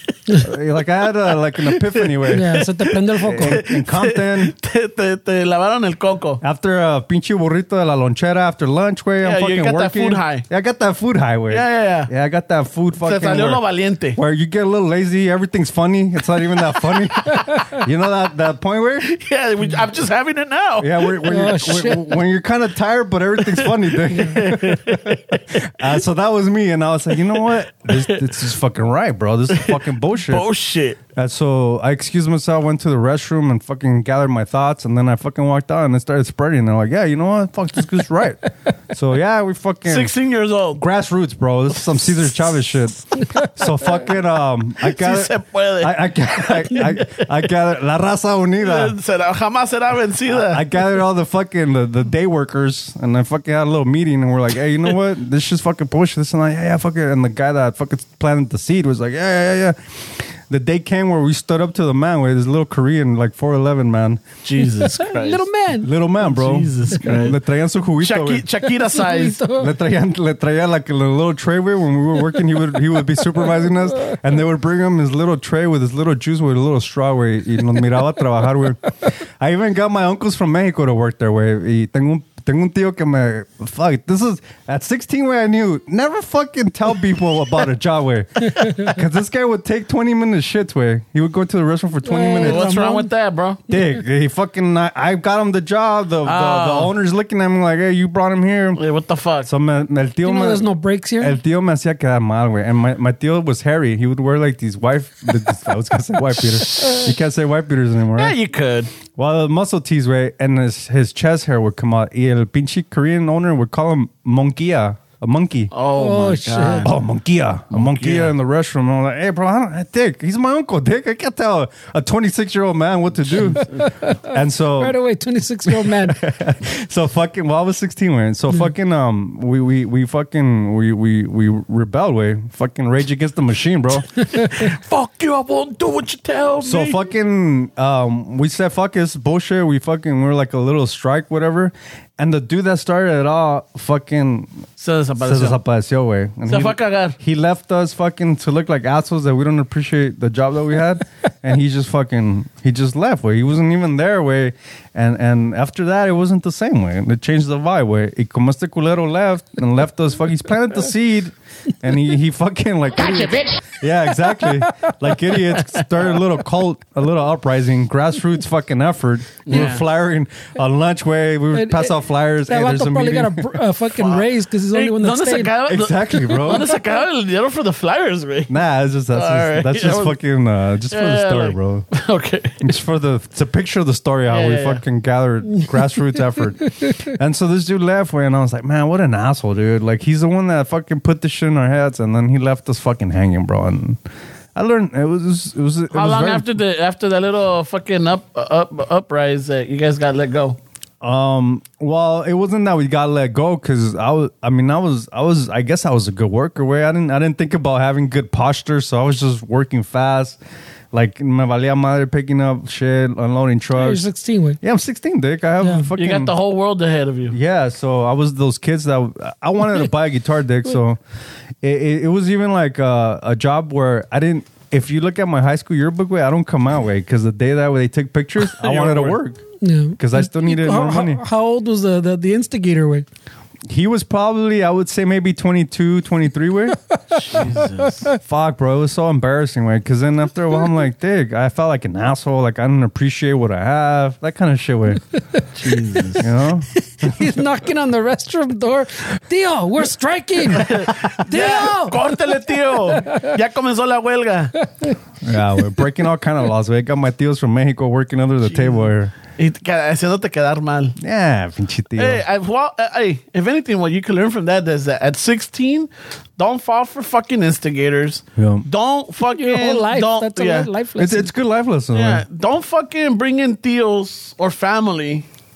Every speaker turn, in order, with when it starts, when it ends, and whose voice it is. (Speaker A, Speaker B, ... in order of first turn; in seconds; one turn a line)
Speaker A: 0.4-2.6
Speaker B: 1.6-6.4
Speaker C: 2.3-3.6
Speaker A: 3.2-4.5
Speaker A: 6.4-13.6
Speaker B: 9.2-10.5
Speaker B: 11.5-12.1
Speaker B: 13.0-14.2
Speaker A: 14.2-19.1
Speaker B: 19.0-21.2
Speaker A: 20.8-30.4
Speaker C: 21.3-22.1
Speaker B: 23.5-25.5
Speaker B: 27.9-28.3
Speaker B: 29.5-31.0
Speaker A: 31.1-40.1
Speaker B: 39.9-40.8
Speaker A: 40.8-49.0
Speaker B: 41.9-42.4
Speaker B: 44.9-47.3
Speaker B: 48.6-50.6
Speaker A: 50.3-64.2
Speaker B: 64.4-65.5
Speaker C: 64.6-65.9
Speaker A: 65.8-68.5
Speaker B: 66.3-67.4
Speaker B: 68.0-69.4
Speaker C: 68.8-69.7
Speaker A: 69.5-92.7
Speaker C: 92.0-93.1
Speaker B: 92.4-93.6
Speaker A: 93.7-98.8
Speaker B: 96.2-96.9
Speaker B: 98.8-99.5
Speaker A: 99.4-108.3
Speaker C: 100.2-101.4
Speaker B: 108.2-108.9
Speaker A: 109.1-115.7
Speaker B: 115.7-116.9
Speaker C: 116.0-116.9
Speaker A: 116.8-123.7
Speaker B: 117.7-118.3
Speaker B: 123.3-123.7
Speaker C: 123.6-126.2
Speaker A: 124.2-125.0
Speaker A: 125.8-134.1
Speaker B: 134.2-137.0
Speaker A: 136.6-144.6
Speaker B: 144.8-145.6
Speaker A: 145.2-173.6
Speaker B: 146.5-147.2
Speaker B: 169.5-169.8
Speaker C: 171.5-175.6
Speaker B: 174.7-178.5
Speaker A: 175.7-176.7
Speaker A: 178.5-181.9
Speaker B: 179.1-180.2
Speaker B: 180.9-182.7
Speaker A: 182.6-194.0
Speaker B: 184.3-184.8
Speaker A: 194.6-196.5
Speaker B: 195.9-200.6
Speaker A: 201.0-210.4
Speaker A: 210.9-214.1
Speaker C: 213.8-214.6
Speaker A: 214.6-216.3
Speaker C: 215.6-215.9
Speaker B: 216.0-217.4
Speaker A: 217.3-221.0
Speaker A: 221.6-229.4
Speaker B: 228.6-229.2
Speaker C: 229.6-233.1
Speaker A: 230.0-231.2
Speaker A: 233.7-236.8
Speaker C: 237.1-237.4
Speaker B: 237.1-238.1
Speaker A: 238.2-245.0
Speaker B: 245.6-246.3
Speaker A: 246.2-247.3
Speaker C: 246.9-252.1
Speaker B: 250.5-254.5
Speaker C: 252.9-253.3
Speaker A: 255.2-259.1
Speaker B: 258.4-261.0
Speaker A: 261.0-262.2
Speaker B: 262.0-270.7
Speaker A: 268.4-268.7
Speaker C: 269.2-271.3
Speaker A: 271.0-272.2
Speaker B: 271.9-275.2